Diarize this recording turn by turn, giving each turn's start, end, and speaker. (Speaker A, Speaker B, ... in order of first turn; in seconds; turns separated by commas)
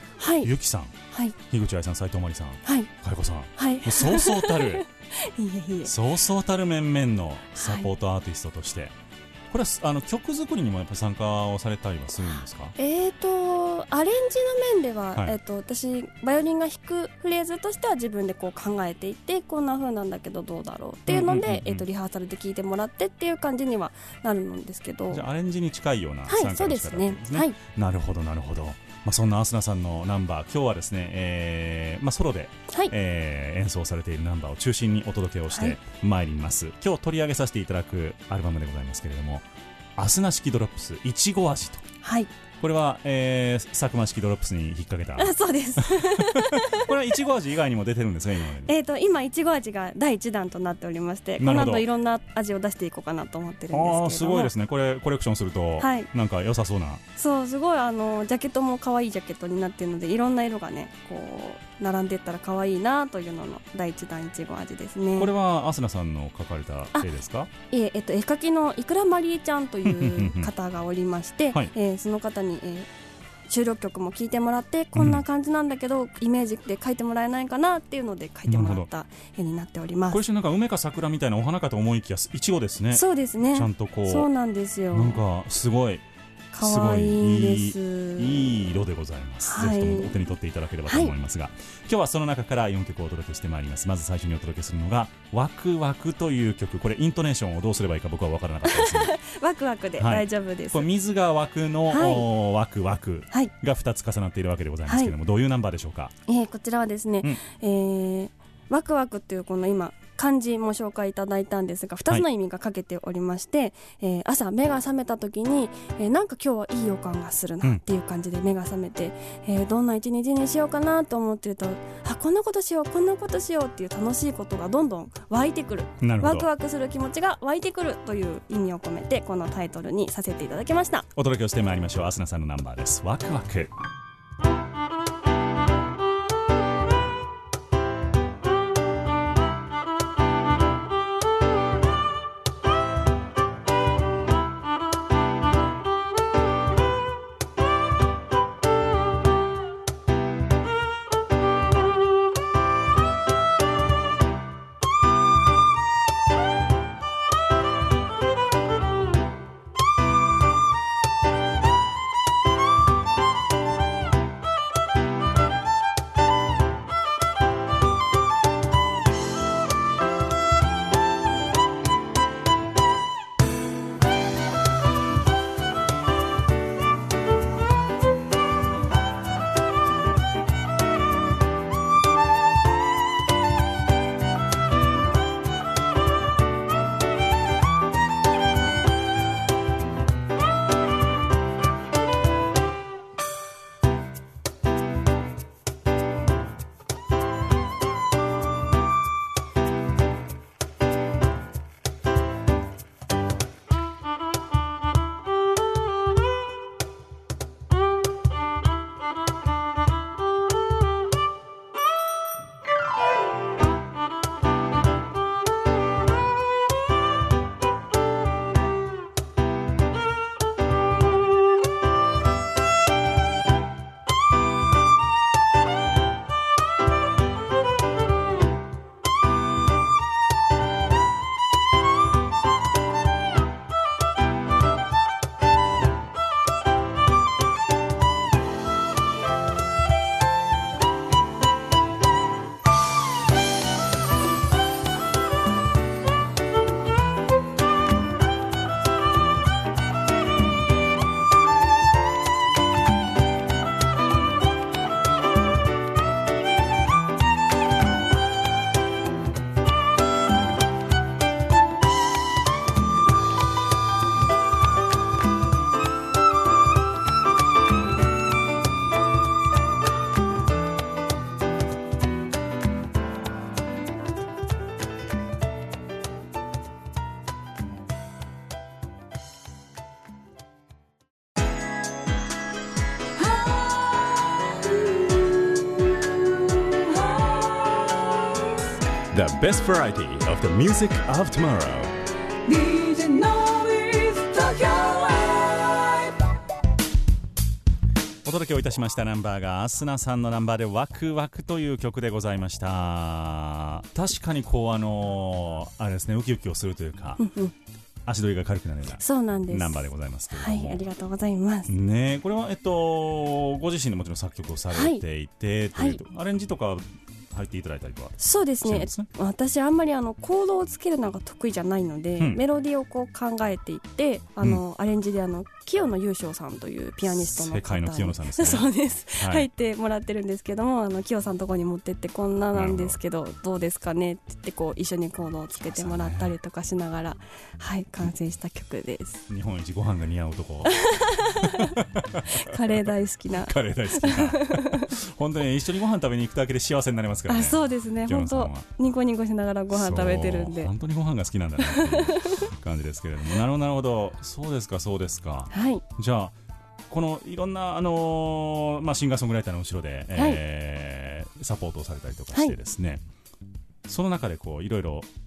Speaker A: 0.2-0.5, Speaker B: 0.4-0.9, Speaker A: 1.1-1.4, Speaker B: 1.5-4.8, Speaker A: 2.6-2.9, Speaker A: 3.5-5.9, Speaker B: 5.8-8.9, Speaker A: 7.5-7.9, Speaker B: 9.5-12.7, Speaker A: 12.2-25.2, Speaker B: 21.1-21.8, Speaker B: 25.1-39.4, Speaker A: 26.3-27.6, Speaker A: 35.5-35.8, Speaker B: 40.0-41.8, Speaker A: 42.0-42.3, Speaker B: 42.6-48.7, Speaker A: 45.2-46.9, Speaker A: 48.6-54.5, Speaker B: 51.4-51.9, Speaker B: 53.7-57.0, Speaker A: 55.8-56.1, Speaker A: 57.1-65.3, Speaker B: 65.2-67.5, Speaker A: 67.7-72.9, Speaker B: 69.8-70.5, Speaker A: 73.5-80.2, Speaker B: 74.9-75.2, Speaker B: 78.5-78.9, Speaker B: 80.1-84.3, Speaker A: 82.9-85.2, Speaker B: 84.9-86.0, Speaker A: 86.5-88.6, Speaker B: 86.6-99.2, Speaker A: 89.4-90.2, Speaker A: 90.9-91.1, Speaker A: 98.6-100.9, Speaker B: 100.0-106.1, Speaker A: 101.9-102.2, Speaker A: 104.9-105.1, Speaker A: 106.3-131.1, Speaker B: 126.0-126.5, Speaker B: 131.2-133.7, Speaker C: 283.2-288.4, Speaker D: 289.1-291.9, Speaker C: 292.4-296.2, Speaker B: 298.2-307.2, Speaker A: 307.2-307.5, Speaker B: 308.1-310.8, Speaker A: 309.0-311.7, Speaker B: 311.7-319.1, Speaker A: 314.7-315.0, Speaker A: 315.7-316.0, Speaker A: 318.2-339.2, Speaker B: 327.1-329.5, Speaker B: 332.5-333.0, Speaker B: 335.6-336.3, Speaker B: 339.3-348.6, Speaker A: 340.6-341.8, Speaker A: 342.3-344.9, Speaker A: 347.3-350.7, Speaker B: 349.7-356.3, Speaker A: 351.6-352.4, Speaker A: 355.5-355.8, Speaker B: 356.9-363.0, Speaker A: 360.1-360.4, Speaker B: 363.9-365.1